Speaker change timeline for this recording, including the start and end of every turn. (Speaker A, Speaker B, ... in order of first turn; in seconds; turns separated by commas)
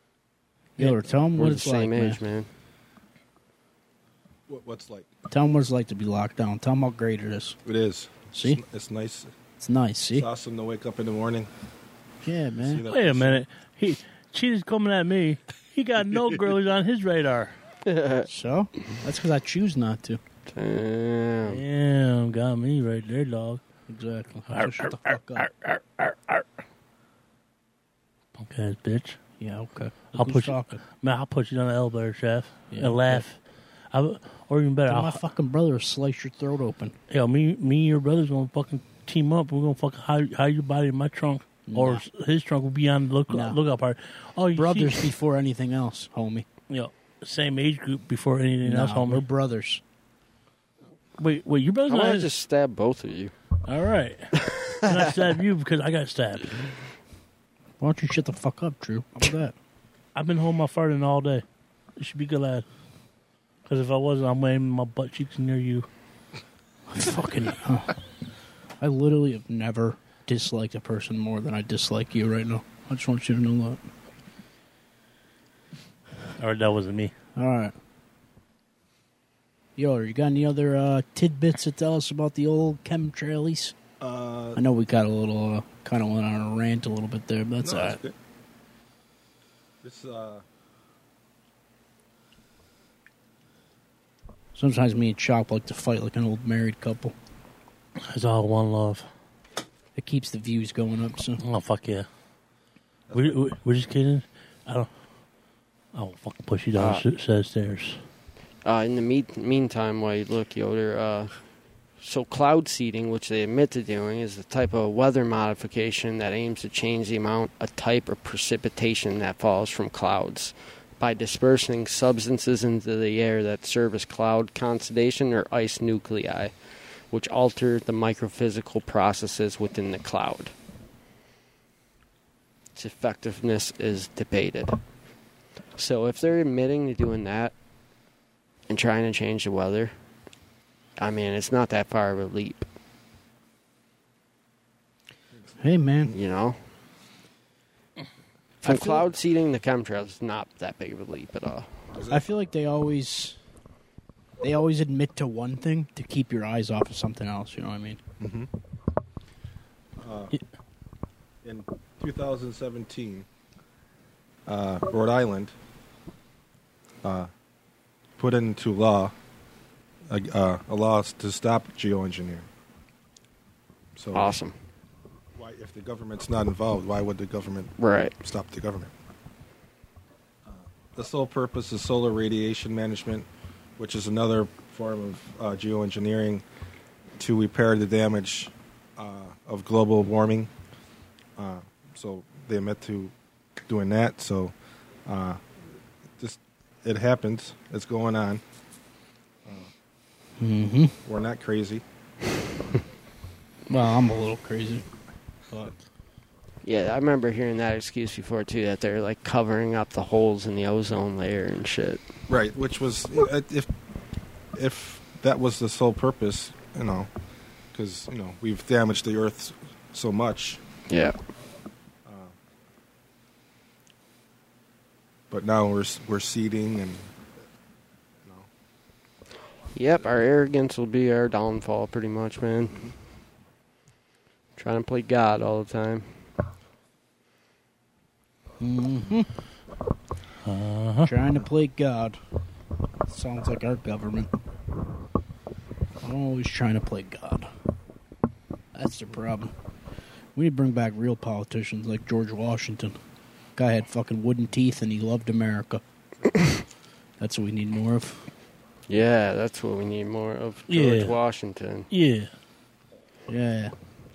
Speaker A: 0.8-2.2, Speaker B: 1.3-2.5, Speaker C: 4.5-5.1, Speaker A: 5.3-7.6, Speaker C: 7.7-9.3, Speaker A: 8.3-8.6, Speaker A: 9.6-10.3, Speaker C: 10.1-11.5, Speaker A: 12.2-12.8, Speaker C: 12.6-13.4, Speaker D: 12.9-17.5, Speaker B: 17.9-18.3, Speaker A: 18.3-20.2, Speaker B: 20.5-21.6, Speaker D: 21.5-23.6, Speaker A: 23.9-25.5, Speaker D: 24.5-26.4, Speaker D: 28.4-29.2, Speaker A: 29.4-30.8, Speaker D: 30.1-33.4, Speaker A: 32.7-33.2, Speaker D: 33.9-35.2, Speaker A: 34.9-37.0, Speaker D: 37.1-45.0, Speaker A: 41.7-42.0, Speaker A: 43.3-43.6, Speaker A: 44.5-46.5, Speaker D: 46.7-49.2, Speaker A: 48.6-49.8, Speaker D: 51.2-52.3, Speaker B: 51.9-53.3, Speaker D: 53.7-56.7, Speaker B: 54.4-55.1, Speaker A: 57.8-59.5, Speaker D: 60.1-61.4, Speaker D: 62.0-62.6, Speaker D: 63.7-65.9, Speaker A: 66.9-68.0, Speaker A: 68.8-73.8, Speaker D: 76.4-77.1, Speaker A: 77.4-77.7, Speaker A: 79.8-83.8, Speaker C: 84.0-84.6, Speaker A: 84.5-88.0, Speaker C: 87.6-88.2, Speaker C: 89.8-90.4, Speaker A: 94.5-97.2, Speaker D: 98.1-99.1, Speaker A: 100.0-101.4, Speaker D: 101.4-102.1, Speaker C: 103.1-103.4, Speaker D: 103.1-104.9, Speaker D: 105.9-108.0, Speaker B: 106.8-107.0, Speaker B: 108.6-111.3, Speaker B: 112.0-126.5, Speaker B: 127.1-130.5, Speaker B: 132.8-134.8, Speaker B: 135.8-137.5, Speaker B: 138.7-139.9, Speaker B: 141.0-142.7, Speaker A: 145.6-146.1, Speaker B: 146.1-146.6, Speaker B: 148.6-151.7, Speaker A: 148.7-149.1, Speaker C: 151.9-152.2, Speaker A: 152.1-153.4, Speaker A: 154.4-158.0, Speaker C: 158.2-158.5, Speaker C: 160.0-160.3, Speaker C: 161.4-163.3, Speaker C: 164.5-165.5, Speaker C: 167.0-167.3, Speaker C: 168.2-169.1, Speaker C: 170.1-172.5, Speaker C: 174.0-174.3, Speaker B: 174.1-174.6, Speaker C: 175.4-178.9, Speaker B: 177.8-178.2, Speaker C: 180.5-186.4, Speaker C: 187.2-190.5, Speaker C: 191.4-193.1, Speaker C: 193.7-194.5, Speaker C: 195.1-195.6, Speaker C: 196.2-198.4, Speaker C: 199.4-199.7, Speaker A: 200.4-201.0, Speaker C: 201.1-201.8, Speaker A: 203.7-204.9, Speaker B: 206.6-212.0, Speaker C: 212.3-213.7, Speaker C: 214.5-217.1, Speaker C: 217.7-220.6, Speaker B: 220.9-221.2, Speaker C: 222.1-222.4, Speaker C: 225.3-227.1, Speaker C: 228.2-228.5, Speaker B: 229.8-232.9, Speaker B: 234.6-236.1, Speaker A: 238.6-239.3, Speaker D: 240.4-241.1, Speaker A: 241.1-242.2, Speaker A: 243.1-244.3, Speaker A: 246.0-247.5, Speaker A: 248.8-249.5, Speaker A: 250.3-253.0, Speaker A: 253.6-255.8, Speaker A: 257.2-258.3, Speaker B: 258.9-261.9, Speaker D: 260.7-261.2, Speaker D: 261.9-262.3, Speaker A: 263.3-263.7